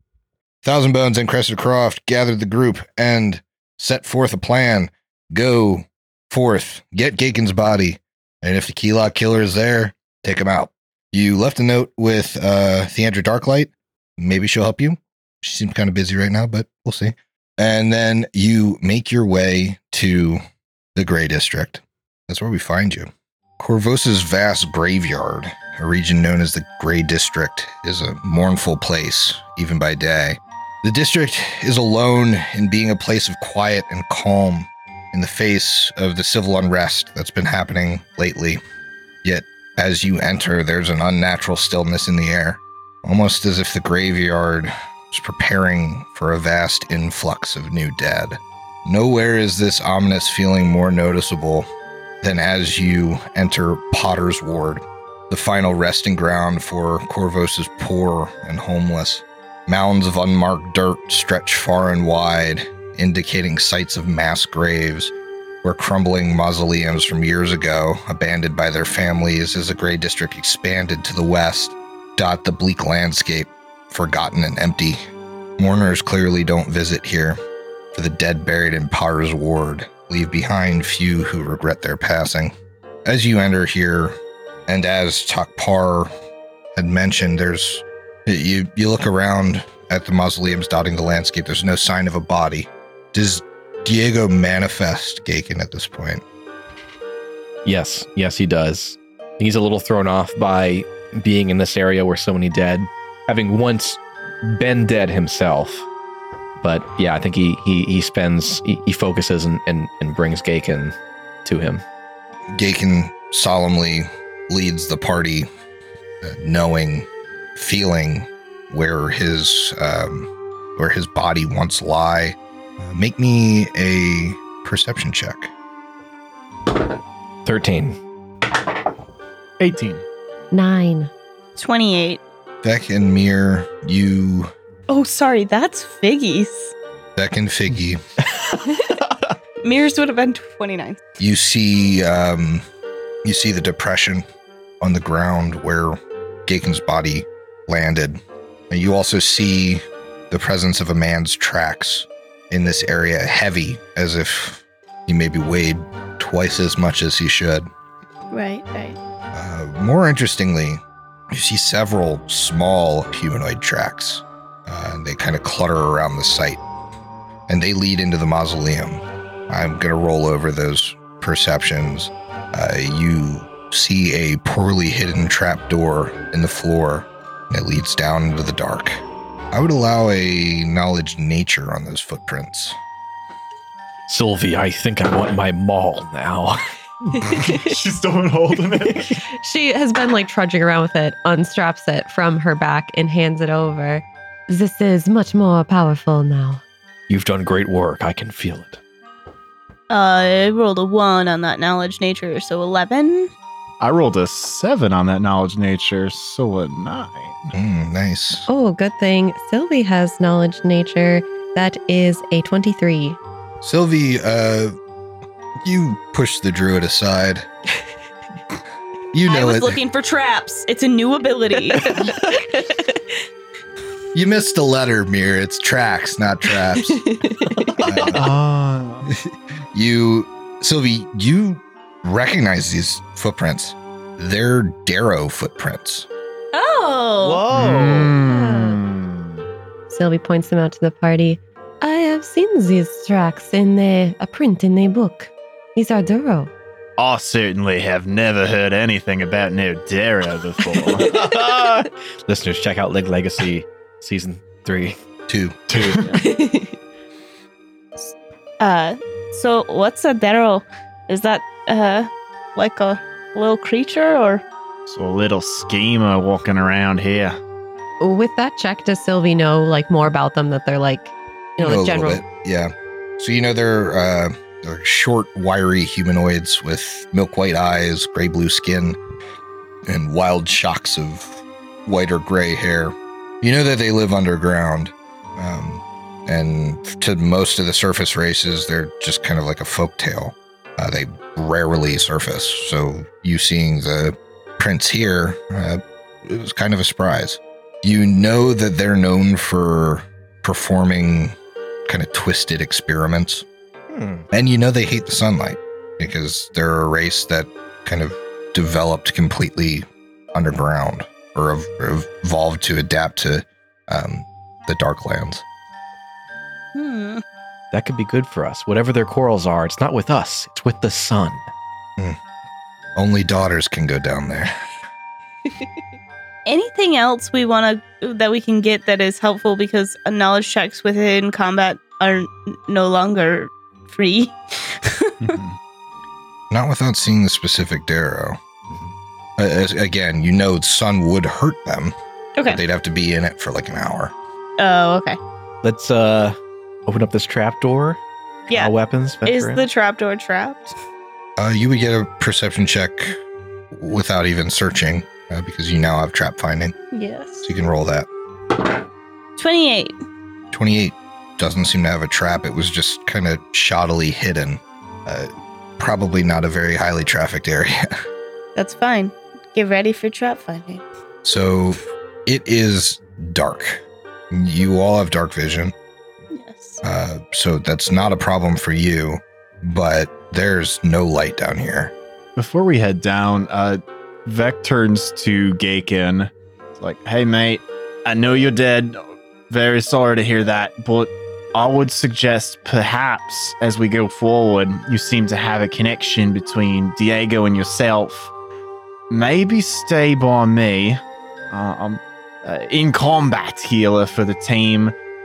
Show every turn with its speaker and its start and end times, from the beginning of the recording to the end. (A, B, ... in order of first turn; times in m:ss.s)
0:00.6-0:20.4 A
0:21.0-0:38.6 A
0:39.2-0:51.7 A
0:52.2-1:05.1 A
1:05.6-1:15.0 A
1:15.6-1:17.4 A
1:17.9-1:22.5 A
1:23.0-1:24.2 A
1:24.7-1:26.1 A
1:26.8-1:36.2 A
1:37.6-1:45.9 B
1:46.6-1:51.8 B
1:52.5-1:55.5 A
1:56.2-2:05.5 A
2:07.5-2:08.0 B
2:09.6-2:10.0 C
2:10.5-2:11.1 D
2:11.6-2:12.2 E
2:12.6-2:14.5 A
2:14.9-2:16.7 E
2:17.2-2:18.0 A
2:18.3-2:19.2 B
2:19.6-2:21.0 E
2:21.2-2:22.6 A
2:23.2-2:24.2 A
2:24.8-2:37.7 A
2:38.3-2:39.0 E
2:39.3-2:46.6 A
2:47.5-3:02.8 A
3:04.1-3:06.6 B
3:07.2-3:09.2 C
3:09.3-3:16.6 D
3:17.1-3:18.8 B
3:19.9-3:23.3 E
3:23.8-3:27.5 C
3:27.5-3:28.5 A
3:28.5-3:33.2 D
3:33.6-3:34.8 A
3:35.6-3:37.5 A
3:39.1-3:39.8 A
3:39.3-3:42.2 E
3:44.1-3:47.1 A
3:47.0-3:48.1 D
3:47.8-3:48.4 A
3:48.1-3:49.1 C
3:49.1-3:56.1 A
3:56.5-3:57.5 E
3:57.5-3:59.4 C
3:57.6-3:58.0 B
3:58.1-3:58.8 D
3:59.9-4:06.5 D
4:07.0-4:11.8 C
4:11.1-4:11.6 B
4:12.3-4:15.0 B
4:15.3-4:15.6 A
4:15.7-4:16.2 C
4:15.7-4:16.0 B
4:16.2-4:16.7 D
4:18.6-4:24.4 E
4:24.9-4:27.4 C
4:28.0-4:32.2 D
4:31.6-4:39.0 A
4:39.9-5:01.4 A
5:01.9-5:03.4 A
5:03.9-5:04.3 B
5:04.3-5:15.4 A
5:16.7-5:17.2 E
5:17.7-5:21.5 B
5:23.0-5:24.5 A
5:26.5-5:35.3 E
5:35.2-5:35.6 C
5:36.5-5:38.4 A
5:39.4-5:42.0 A
5:42.4-5:42.6 E
5:42.5-5:44.1 A
5:44.6-5:45.2 E
5:45.6-5:48.0 B
5:48.5-5:50.8 E
5:48.5-5:49.7 B
5:51.4-5:53.2 A
5:53.7-5:56.8 A
5:56.9-5:57.6 E
5:57.4-5:58.1 A
5:59.4-6:00.0 E
6:00.5-6:07.9 A
6:08.6-6:10.8 E
6:11.2-6:15.7 A
6:16.3-6:16.8 E
6:16.8-6:21.9 A
6:22.4-6:38.3 C
6:39.1-6:45.0 C